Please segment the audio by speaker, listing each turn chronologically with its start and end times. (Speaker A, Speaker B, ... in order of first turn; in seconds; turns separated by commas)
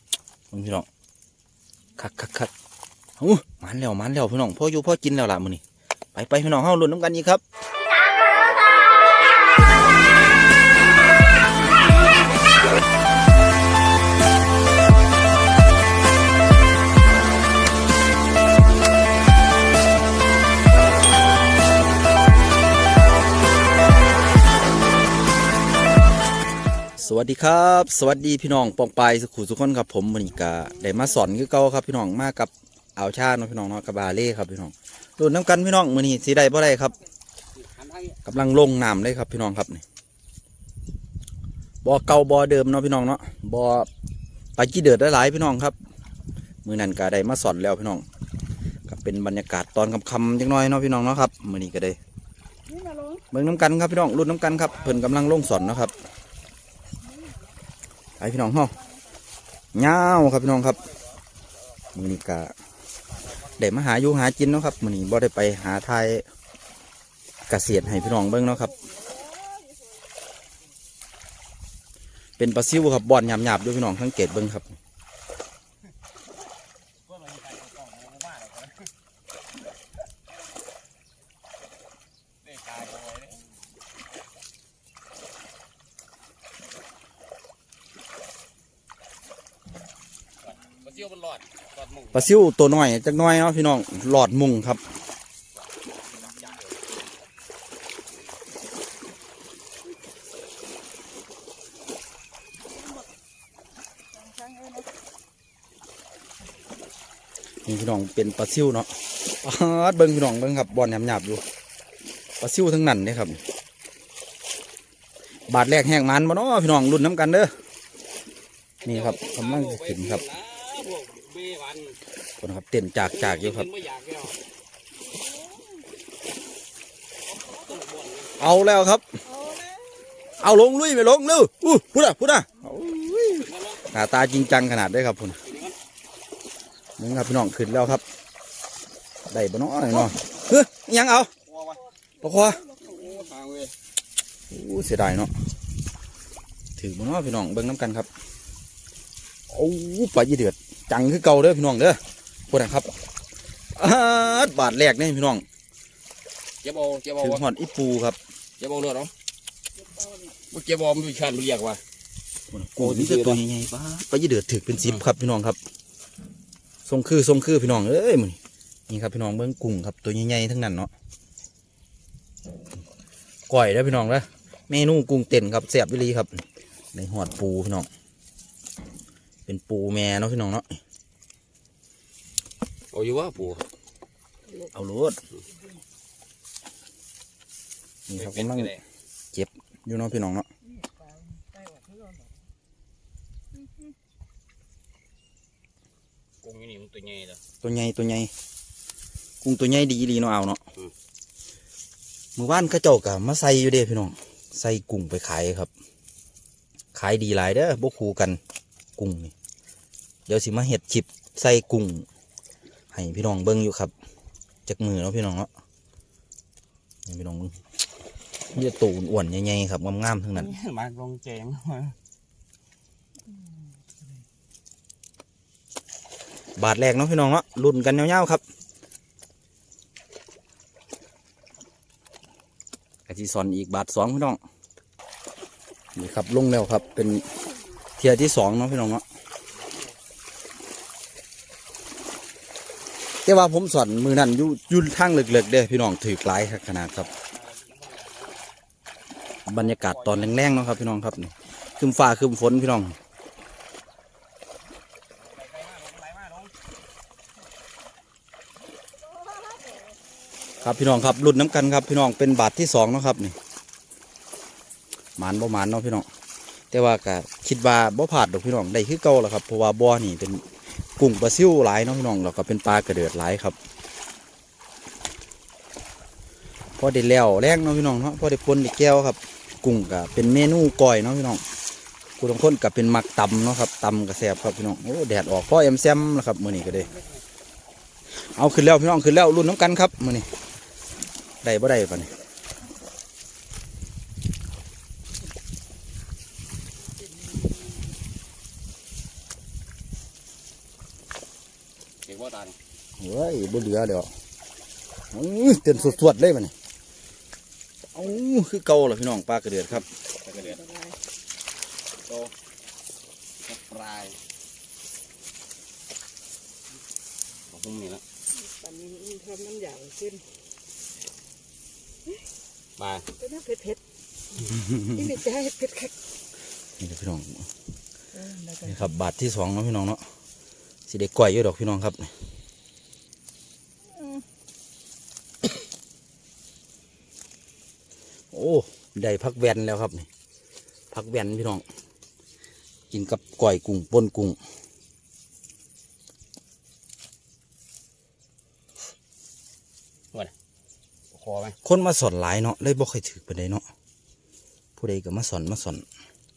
Speaker A: 0.5-0.9, Speaker A: 2.0-2.5, Speaker A: 3.2-5.6, Speaker A: 6.1-7.4, Speaker A: 27.0-37.0, Speaker B: 37.5-38.2, Speaker A: 38.2-39.8, Speaker A: 41.8-43.9, Speaker A: 44.6-45.8, Speaker A: 46.6-48.0, Speaker A: 48.9-52.0, Speaker C: 52.7-53.2, Speaker A: 53.3-55.9, Speaker B: 54.5-55.1, Speaker A: 58.2-58.8, Speaker A: 59.7-60.8, Speaker A: 61.9-62.5, Speaker B: 63.2-63.6, Speaker A: 63.5-66.2, Speaker A: 67.5-68.8, Speaker A: 72.4-74.7, Speaker B: 77.1-78.9, Speaker B: 82.4-83.5, Speaker B: 90.4-92.3, Speaker A: 92.1-94.8, Speaker B: 96.1-96.7, Speaker C: 104.2-104.8, Speaker A: 107.7-111.4, Speaker A: 112.4-113.4, Speaker A: 115.5-117.5, Speaker B: 118.8-122.0, Speaker A: 118.8-120.2, Speaker A: 122.4-123.7, Speaker B: 123.1-124.4, Speaker C: 125.1-125.7, Speaker B: 127.2-128.3, Speaker A: 128.4-129.0, Speaker C: 129.3-130.3, Speaker A: 130.4-135.4, Speaker B: 133.4-133.8, Speaker B: 135.4-135.8, Speaker A: 137.0-138.0, Speaker A: 139.3-141.3, Speaker B: 141.5-141.8, Speaker A: 142.2-142.7, Speaker B: 142.7-143.7, Speaker A: 144.5-145.3, Speaker A: 146.8-148.1, Speaker A: 149.5-152.9, Speaker A: 153.7-155.4, Speaker B: 156.6-157.4, Speaker A: 157.2-158.2, Speaker B: 158.6-159.1, Speaker B: 160.3-161.8, Speaker A: 162.5-165.6, Speaker B: 162.8-163.4, Speaker A: 166.8-168.4, Speaker A: 168.9-170.9, Speaker A: 173.5-177.9, Speaker A: 179.4-180.8, Speaker B: 182.9-183.7, Speaker A: 184.7-185.2, Speaker A: 188.1-188.7, Speaker B: 188.1-188.8, Speaker A: 189.3-190.5, Speaker C: 190.8-192.2, Speaker B: 196.4-197.4, Speaker A: 197.6-198.3, Speaker A: 199.4-200.6, Speaker A: 202.3-205.7, Speaker A: 206.9-208.4, Speaker A: 209.0-209.3, Speaker A: 210.3-212.1, Speaker A: 212.9-213.9, Speaker A: 214.7-215.5, Speaker A: 217.1-217.5, Speaker A: 218.5-220.5, Speaker B: 220.3-221.9, Speaker A: 226.6-228.4, Speaker A: 233.1-234.4, Speaker A: 235.9-237.3, Speaker A: 238.0-239.0, Speaker A: 243.2-247.1, Speaker B: 247.3-248.4, Speaker A: 249.5-252.9, Speaker B: 249.6-250.3, Speaker B: 255.2-256.5, Speaker A: 260.6-263.4, Speaker A: 265.2-266.1, Speaker A: 266.7-270.4, Speaker A: 271.0-273.6, Speaker A: 276.8-281.4, Speaker A: 282.2-286.9, Speaker A: 288.1-290.3, Speaker A: 291.4-292.1, Speaker B: 302.0-302.6, Speaker A: 303.0-304.1, Speaker A: 305.1-306.5, Speaker A: 307.9-309.9, Speaker B: 310.2-310.6, Speaker C: 310.6-311.0, Speaker B: 312.1-312.3, Speaker B: 313.4-314.2, Speaker B: 317.5-318.0, Speaker C: 318.3-320.2, Speaker B: 322.8-323.1, Speaker C: 323.2-323.8, Speaker A: 324.6-325.0, Speaker C: 324.9-325.9, Speaker A: 326.8-327.5, Speaker C: 328.1-328.7, Speaker A: 328.6-330.0, Speaker A: 330.9-332.1, Speaker A: 338.3-340.1, Speaker A: 340.9-341.6, Speaker A: 342.9-344.4, Speaker B: 351.1-351.6, Speaker A: 351.6-353.6, Speaker A: 354.8-355.8